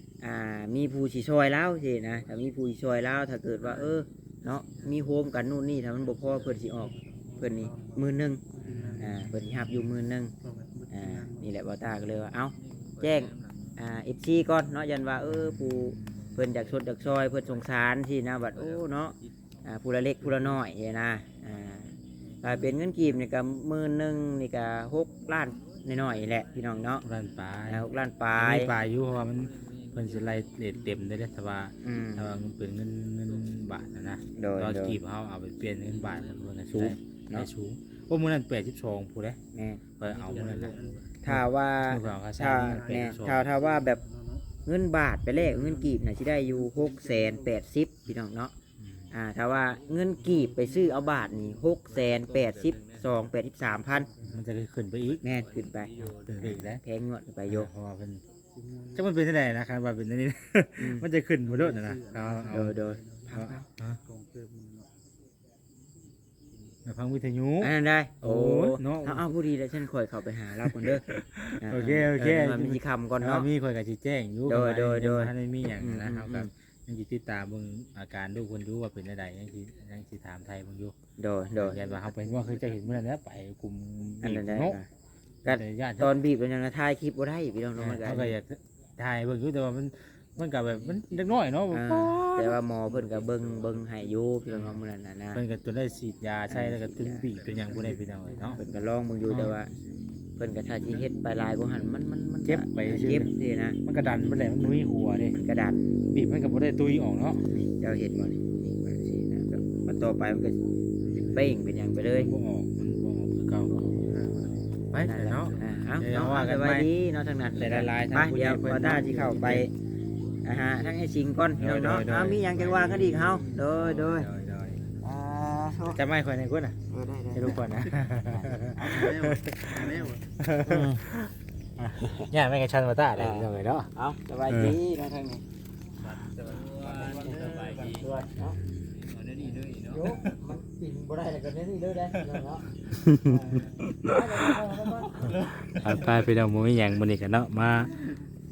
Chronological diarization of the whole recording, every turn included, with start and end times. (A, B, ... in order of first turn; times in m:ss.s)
0:00.2-0:08.4 A
0:03.6-0:05.4 B
0:05.9-0:09.3 B
0:08.7-0:09.9 C
0:09.0-0:10.3 A
0:10.4-0:11.5 B
0:10.9-0:27.0 A
0:12.6-0:13.8 B
0:15.2-0:16.4 C
0:16.4-0:17.6 B
0:18.5-0:19.3 B
0:20.2-0:20.6 B
0:22.2-0:22.6 B
0:25.6-0:26.6 B
0:27.0-0:39.4 C
0:27.7-0:28.7 A
0:29.1-0:31.2 B
0:31.8-0:32.3 A
0:33.3-0:33.9 B
0:34.4-0:35.0 A
0:35.9-0:36.6 B
0:36.7-0:37.5 A
0:39.5-0:39.8 A
0:40.0-0:43.5 C
0:40.0-0:41.2 B
0:41.2-0:44.0 A
0:42.6-0:44.5 B
0:44.6-0:48.5 A
0:45.3-0:47.4 B
0:48.8-0:49.1 C
0:49.1-0:54.1 A
0:49.5-0:53.3 B
0:53.9-0:54.4 B
0:54.2-0:55.2 C
0:55.1-0:56.4 B
0:55.2-0:57.7 A
0:56.0-0:56.8 C
0:57.5-0:58.2 C
0:58.5-0:59.0 B
0:59.0-1:02.8 C
1:00.8-1:01.1 A
1:01.4-1:04.9 B
1:02.5-1:03.7 A
1:03.3-1:04.0 C
1:06.9-1:09.2 C
1:07.6-1:11.0 A
1:10.7-1:21.0 C
1:11.6-1:13.5 A
1:14.5-1:16.5 A
1:21.2-1:21.8 A
1:21.6-1:24.8 C
1:24.2-1:24.9 A
1:25.4-1:28.4 A
1:25.5-1:26.2 C
1:27.8-1:32.6 C
1:30.7-1:31.3 B
1:31.7-1:35.4 A
1:32.9-1:34.8 B
1:34.5-1:34.8 C
1:35.3-1:38.6 C
1:36.5-1:37.3 A
1:37.3-1:38.8 B
1:38.6-1:39.7 A
1:39.3-1:39.6 C
1:39.6-1:40.0 B
1:40.4-1:43.8 A
1:42.4-1:43.3 C
1:43.8-1:45.4 C
1:45.4-1:45.9 A
1:46.1-1:47.5 C
1:47.5-1:50.6 A
1:51.0-1:51.4 B
1:51.1-1:52.3 A
1:52.1-1:53.8 C
1:53.9-1:54.7 B
1:54.9-1:56.9 C
1:55.1-1:59.7 A
1:55.4-1:55.7 B
1:57.6-1:59.7 C
2:00.4-2:04.3 A
2:01.6-2:04.8 C
2:05.0-2:06.0 A
2:05.9-2:06.8 C
2:06.9-2:09.2 A
2:07.3-2:13.9 C
2:08.8-2:10.2 B
2:09.8-2:10.1 A
2:10.7-2:11.0 A
2:12.0-2:12.3 A
2:13.2-2:15.4 A
2:14.5-2:14.8 C
2:16.0-2:18.2 B
2:16.4-2:18.6 A
2:18.4-2:18.9 C
2:18.9-2:20.4 B
2:19.9-2:25.5 A
2:22.9-2:24.2 C
2:25.2-2:26.3 B
2:25.6-2:28.0 C